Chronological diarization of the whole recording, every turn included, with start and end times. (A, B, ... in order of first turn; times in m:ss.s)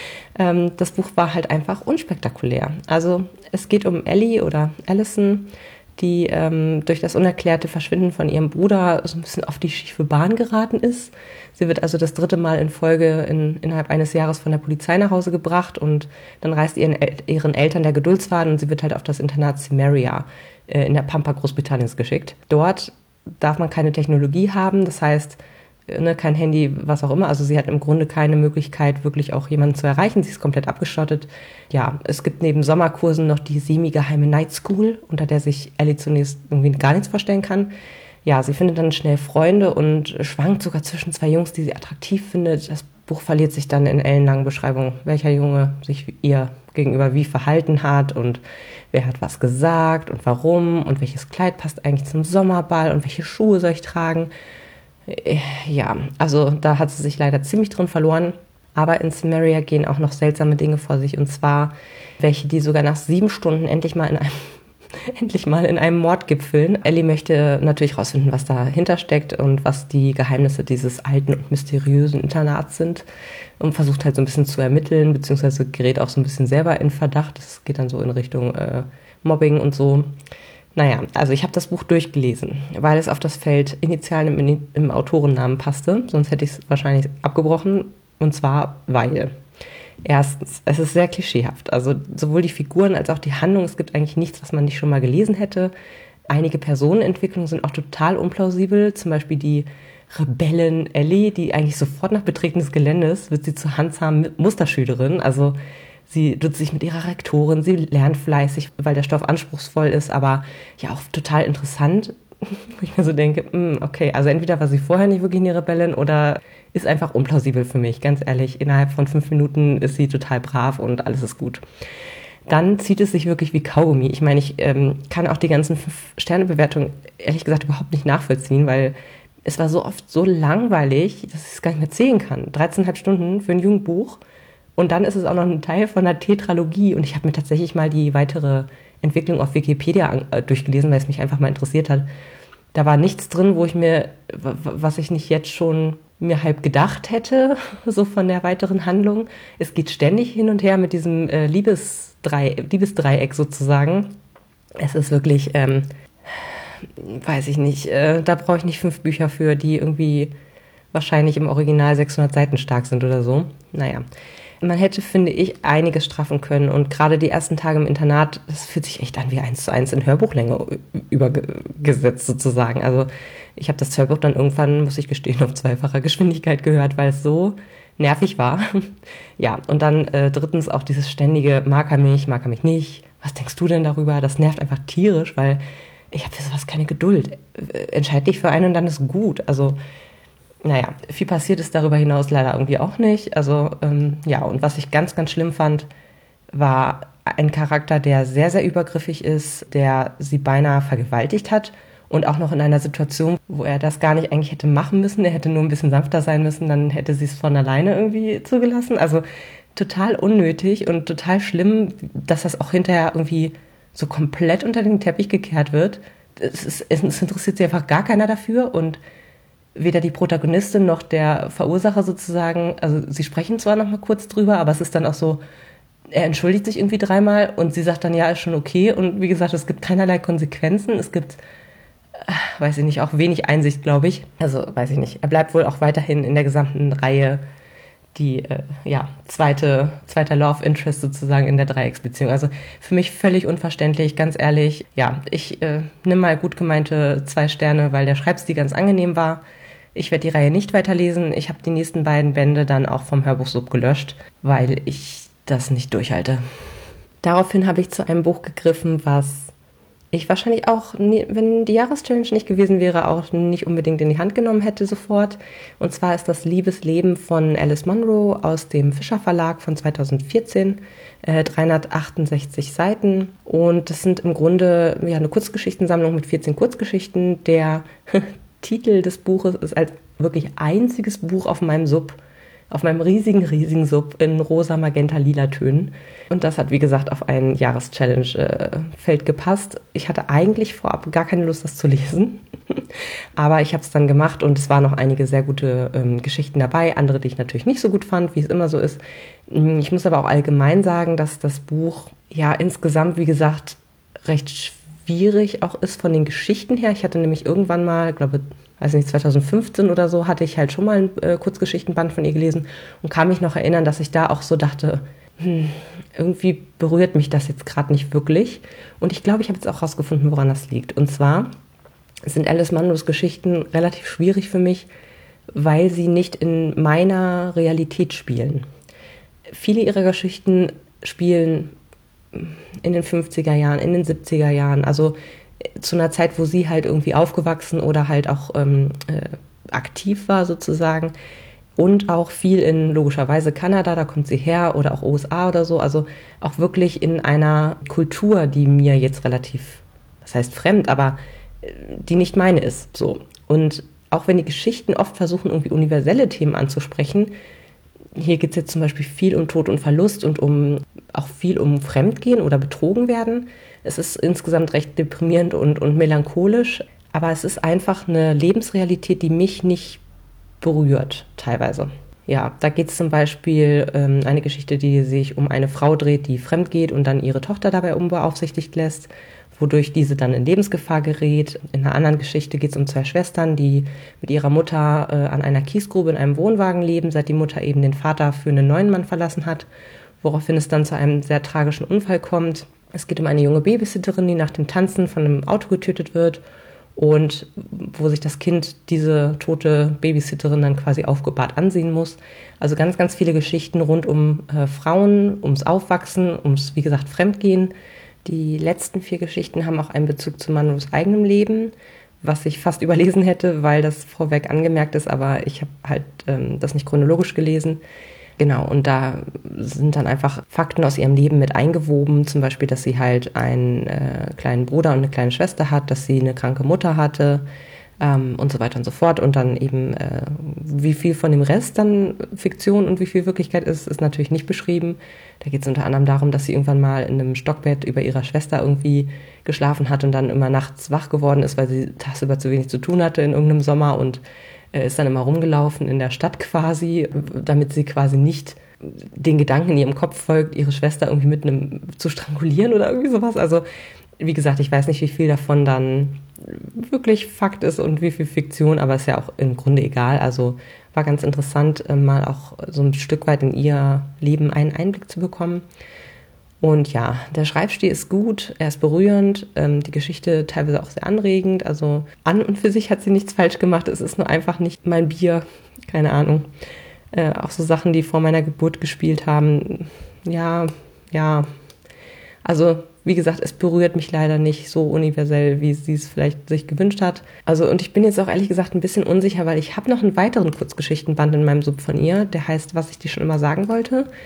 0:00.4-0:37.7 A
0:38.2-0:54.3 A
0:55.1-1:04.5 A
1:05.1-1:13.0 A
1:13.6-1:20.1 A
1:20.8-1:29.3 A
1:30.0-1:35.7 A
1:36.3-1:45.6 A
1:46.1-2:01.6 A
2:02.5-2:08.9 A
2:09.4-2:14.2 A
2:14.8-2:22.1 A
2:22.7-2:34.1 A
2:34.8-2:40.3 A
2:40.9-2:44.0 A
2:44.6-3:09.8 A
3:10.6-3:15.9 A
3:16.5-3:29.2 A
3:29.7-3:39.0 A
3:39.8-3:45.4 A
3:46.1-3:51.4 A
3:52.3-3:57.4 A
3:58.1-4:09.4 A
4:09.9-4:16.4 A
4:17.2-4:19.5 A
4:20.1-4:42.2 A
4:42.7-4:52.8 A
4:53.4-5:21.5 A
5:22.3-5:24.9 A
5:25.5-5:28.6 A
5:29.5-5:31.7 A
5:32.3-5:35.2 A
5:35.8-5:41.1 A
5:41.8-5:57.3 A
5:58.2-6:10.0 A
6:10.6-6:29.7 A
6:30.2-6:36.4 A
6:37.0-6:47.7 A
6:48.2-6:57.8 A
6:58.4-7:07.4 A
7:08.0-7:24.2 A
7:24.7-7:33.6 A
7:34.2-7:45.6 A
7:46.6-7:56.5 A
7:57.1-8:01.4 A
8:02.4-8:14.1 A